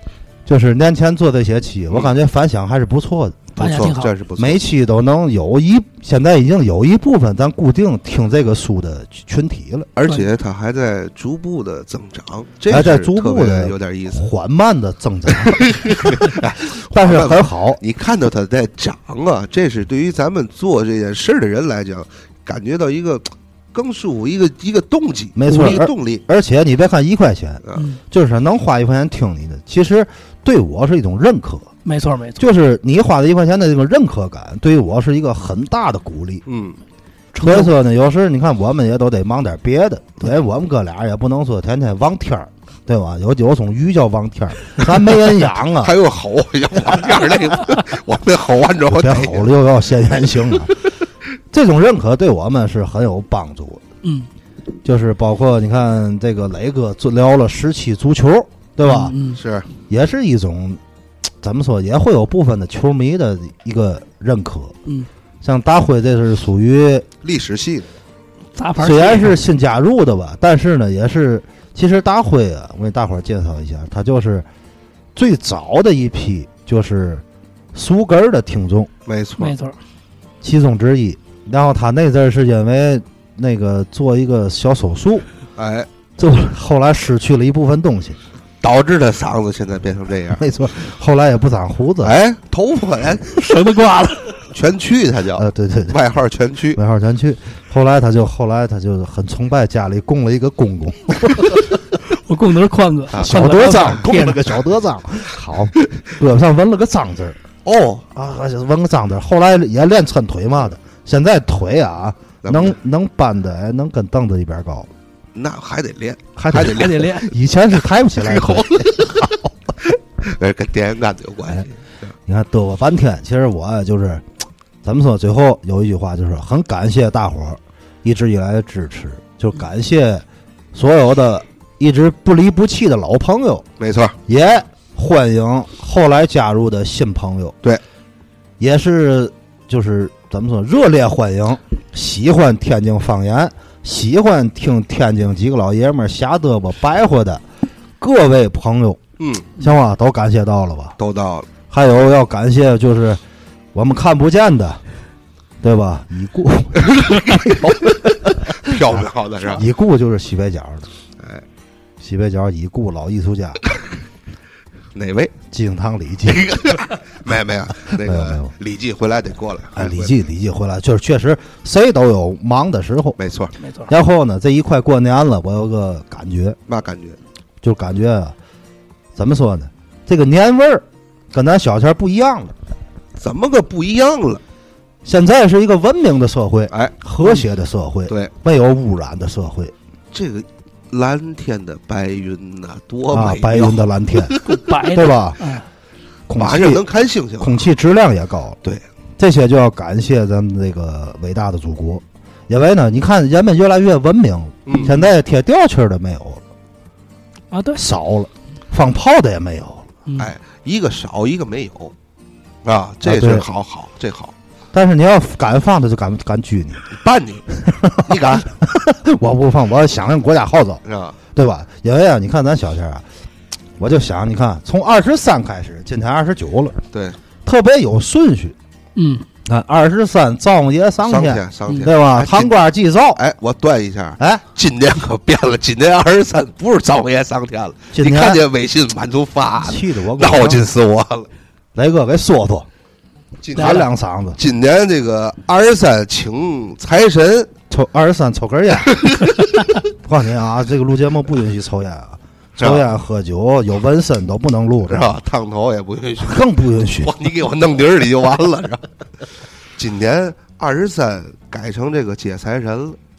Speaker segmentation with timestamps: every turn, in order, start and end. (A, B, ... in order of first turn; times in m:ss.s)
0:00.5-0:03.6 A
0:03.6-0:04.6 B
0:03.6-0:04.1 C
0:04.4-0:09.9 A
0:10.0-0:14.3 B
0:12.7-0:17.8 A
0:15.4-0:26.2 B
0:25.4-0:31.7 A
0:31.8-0:32.4 C
0:32.4-0:36.4 A
0:36.5-0:36.8 B
0:37.3-0:37.7 C
0:37.4-0:45.9 A
0:45.8-0:49.5 B
0:48.9-0:50.8 A
0:51.5-0:53.8 A
0:54.0-0:54.3 C
0:54.8-0:59.2 A
0:58.8-0:59.4 C
0:59.3-0:59.7 B
0:59.9-1:00.8 A
1:01.4-1:04.8 A
1:05.4-1:07.1 A
1:07.2-1:07.9 B
1:08.6-1:09.4 C
1:08.8-1:14.5 A
1:15.2-1:18.9 A
1:19.1-1:19.6 B
1:19.4-1:19.8 C
1:20.4-1:25.2 A
1:25.6-1:25.9 B
1:26.2-1:28.2 A
1:28.6-1:30.4 B
1:30.4-1:32.2 A
1:32.0-1:33.4 B
1:33.3-1:34.4 C
1:34.5-1:36.8 B
1:35.4-1:36.0 A
1:36.8-1:41.6 A
1:42.1-1:44.5 C
1:43.2-1:47.4 A
1:47.6-1:48.1 B
1:48.1-1:54.9 A
1:52.4-1:52.8 B
1:55.3-1:57.2 B
1:56.4-1:59.5 A
1:56.6-1:57.3 C
1:58.2-2:02.0 B
2:02.3-2:04.2 A
2:04.8-2:13.7 A
2:13.8-2:14.2 B
2:14.3-2:17.6 A
2:18.6-2:27.4 A
2:28.0-2:29.0 A
2:29.2-2:29.5 B
2:29.6-2:31.0 A
2:31.0-2:31.5 B
2:31.7-2:33.2 A
2:33.7-2:34.8 A
2:35.6-2:37.8 A
2:36.8-2:39.6 B
2:38.6-2:39.0 A
2:39.5-2:40.9 A
2:41.2-2:41.4 B
2:42.0-2:43.6 A
2:44.9-2:45.3 B
2:45.5-2:46.5 A
2:46.2-2:50.1 B
2:47.9-2:48.5 A
2:49.8-2:53.2 A
2:53.2-2:53.5 B
2:53.6-2:53.9 C
2:53.9-2:56.6 A
2:56.7-2:57.2 B
2:57.6-2:58.4 A
2:59.2-3:02.6 A
3:03.2-3:04.4 B
3:05.0-3:09.7 A
3:10.1-3:14.6 B
3:13.1-3:15.4 A
3:14.4-3:15.6 C
3:16.3-3:16.8 A
3:16.4-3:17.7 B
3:17.4-3:18.6 A
3:19.2-3:26.4 A
3:24.7-3:24.9 B
3:24.7-3:25.1 C
3:27.5-3:27.8 C
3:27.8-3:29.9 A
3:30.2-3:31.9 B
3:32.6-3:34.3 B
3:33.0-3:33.5 A
3:34.7-3:36.9 A
3:36.9-3:37.4 B
3:37.5-3:40.8 A
3:38.0-3:38.5 B
3:40.8-3:41.2 B
3:41.3-3:43.0 A
3:43.8-3:46.8 A
3:46.9-3:47.2 B
3:47.4-3:48.6 A
3:49.0-3:49.3 C
3:49.4-3:53.2 A
3:51.0-3:52.6 B
3:53.2-4:01.3 B
3:54.2-3:54.4 A
3:57.9-3:58.4 A
3:59.6-4:00.6 A
4:01.8-4:02.7 A
4:03.4-4:07.5 B
4:03.6-4:04.4 A
4:03.6-4:03.9 C
4:07.7-4:09.1 A
4:08.9-4:09.4 B
4:10.0-4:15.1 A
4:12.6-4:12.9 B
4:14.9-4:16.5 B
4:16.2-4:17.1 A
4:17.0-4:18.9 B
4:19.8-4:23.0 B